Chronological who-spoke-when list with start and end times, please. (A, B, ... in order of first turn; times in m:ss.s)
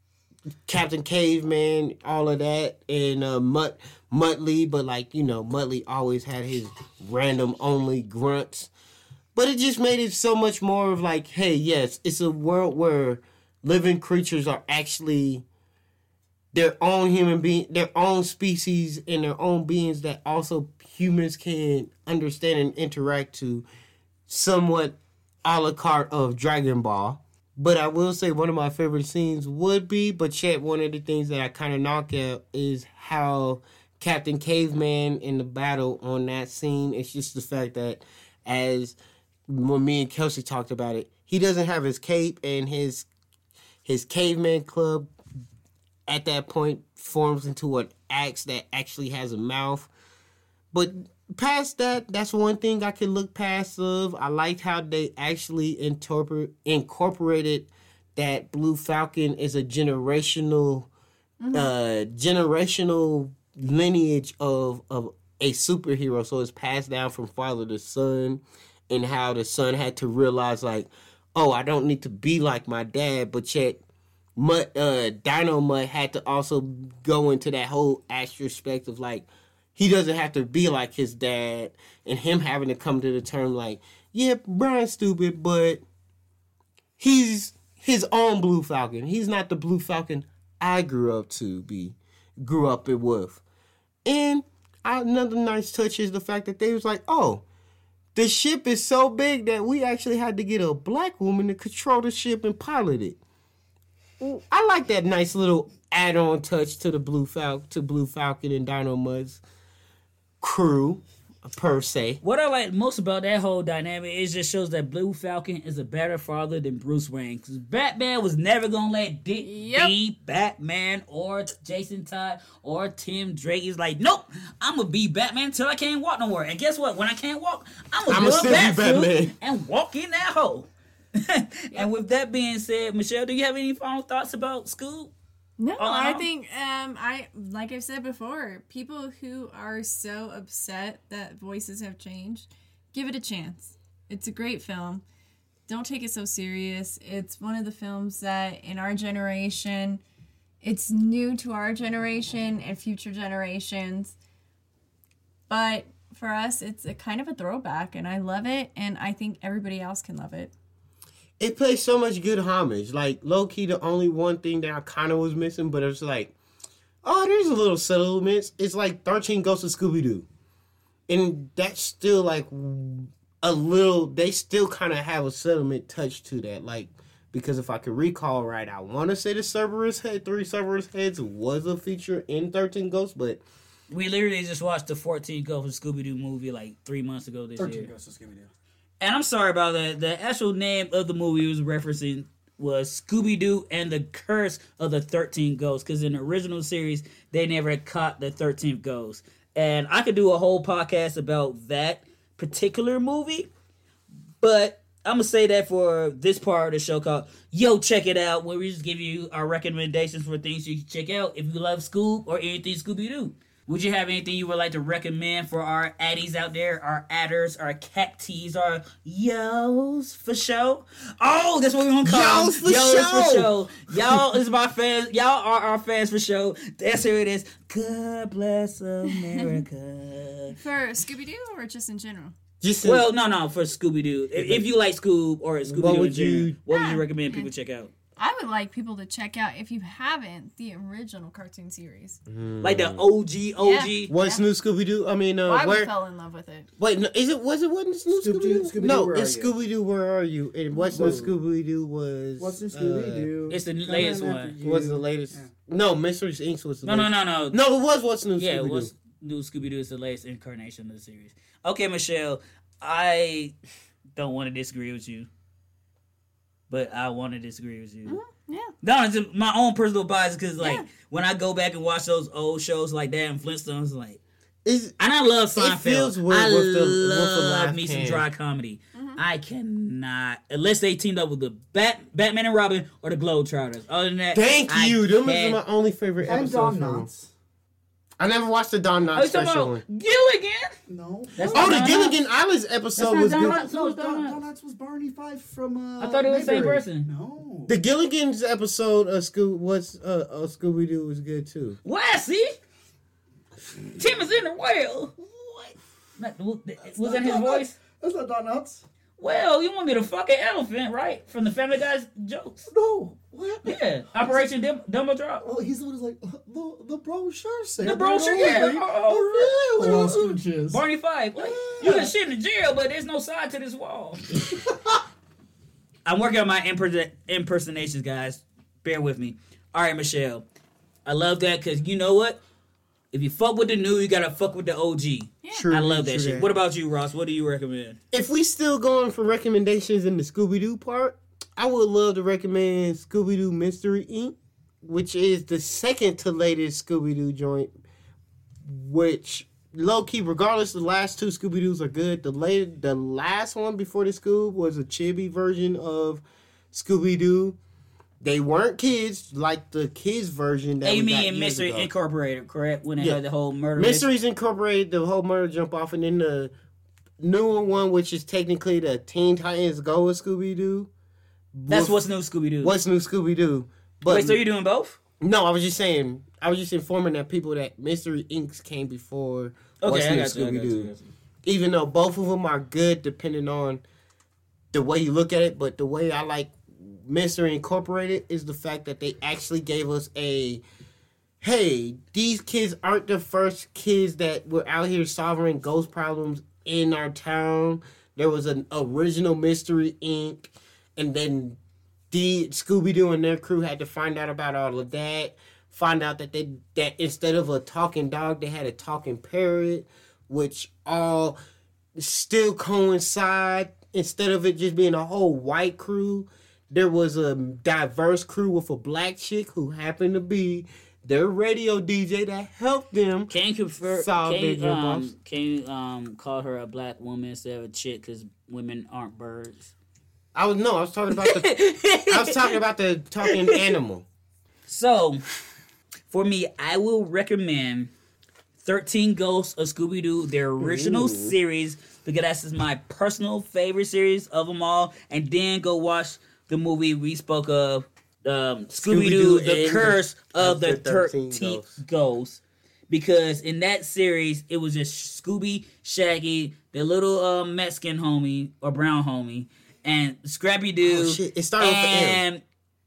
0:00.7-0:08.7 A
0:09.4-0:15.5 A
0:16.5-0:23.6 A
0:24.3-0:39.0 A
0:39.5-0:43.1 A
0:43.8-0:45.1 A
0:46.1-0:49.9 A
0:50.7-1:00.9 A
1:01.4-1:01.7 B
1:01.5-1:13.8 A
1:14.4-1:25.8 A
1:27.0-1:33.4 A
1:34.0-1:37.4 A
1:38.2-1:43.2 A
1:44.2-1:49.4 A
1:50.4-1:52.2 A
1:52.2-2:15.1 C
1:59.4-1:59.9 B
2:08.1-2:09.3 A
2:15.6-2:25.0 B
2:15.8-2:16.3 C
2:25.7-2:30.0 B
2:30.6-2:34.2 B
2:35.5-2:40.5 B
2:41.4-2:46.3 A
2:47.0-2:50.3 A
2:51.1-3:03.4 A
3:03.9-3:07.9 C
3:07.6-3:08.5 D
3:09.0-3:23.5 C
3:24.4-3:50.6 C
3:42.0-3:44.3 A
3:50.6-3:52.3 B
3:52.6-3:53.1 A
3:52.8-3:57.9 C
3:54.4-3:54.7 A
3:55.7-3:56.6 A
3:56.7-3:57.5 B
3:58.2-4:02.2 B
4:02.3-4:03.1 A
4:02.6-4:04.1 C
4:03.6-4:04.4 B
4:04.1-4:05.9 A
4:05.5-4:06.7 B
4:06.8-4:13.3 A
4:08.1-4:09.5 D
4:10.9-4:11.4 D
4:12.4-4:15.5 D
4:13.5-4:14.6 C
4:14.6-4:18.9 A
4:16.8-4:17.6 C
4:18.4-4:23.5 C
4:24.2-4:25.3 C
4:26.7-4:28.2 C
4:28.1-4:28.7 B
4:28.8-4:34.2 C
4:30.6-4:30.9 B
4:34.6-4:35.0 A
4:35.0-4:45.6 C
4:35.6-4:38.2 A
4:39.0-4:39.2 B
4:44.3-4:47.1 A
4:46.2-4:47.3 D
4:48.2-4:49.8 A
4:49.1-4:50.7 C
4:50.9-4:52.0 D
4:51.4-4:52.2 C
4:51.5-4:53.6 A
4:53.0-4:54.4 C
4:53.4-4:57.8 D
4:56.0-4:57.1 C
4:57.7-5:01.8 A
5:01.8-5:02.6 C
5:04.0-5:05.2 C
5:05.2-5:05.7 D
5:06.2-5:07.8 C
5:06.8-5:08.8 D
5:09.2-5:12.7 C
5:12.7-5:14.5 D
5:13.6-5:15.4 C
5:15.4-5:20.8 D
5:17.8-5:24.2 C
5:21.4-5:22.1 D
5:24.4-5:25.0 D
5:26.0-5:30.4 C
5:31.1-5:32.4 C
5:33.1-5:38.0 C
5:35.5-5:36.5 A
5:38.1-5:47.7 A
5:48.6-5:57.6 A
5:58.2-6:01.9 A
6:00.8-6:04.1 C
6:03.8-6:06.5 A
6:07.2-6:10.9 A
6:11.5-6:12.0 A
6:11.7-6:12.8 C
6:12.6-6:14.4 A
6:14.1-6:15.0 C
6:15.2-6:20.9 A
6:19.8-6:21.1 C
6:21.5-6:23.8 A
6:24.7-6:30.6 A
6:31.4-6:41.6 A
6:42.1-6:51.4 A
6:52.0-7:03.3 A
7:03.3-7:09.7 C
7:03.9-7:05.1 A
7:10.4-7:11.6 A
7:11.1-7:12.6 C
7:12.1-7:14.0 A
7:13.2-7:13.7 C
7:14.7-7:15.2 C
7:16.1-7:17.9 C
7:18.6-7:42.4 C
7:20.6-7:21.4 A
7:28.7-7:31.8 A
7:40.8-7:42.2 A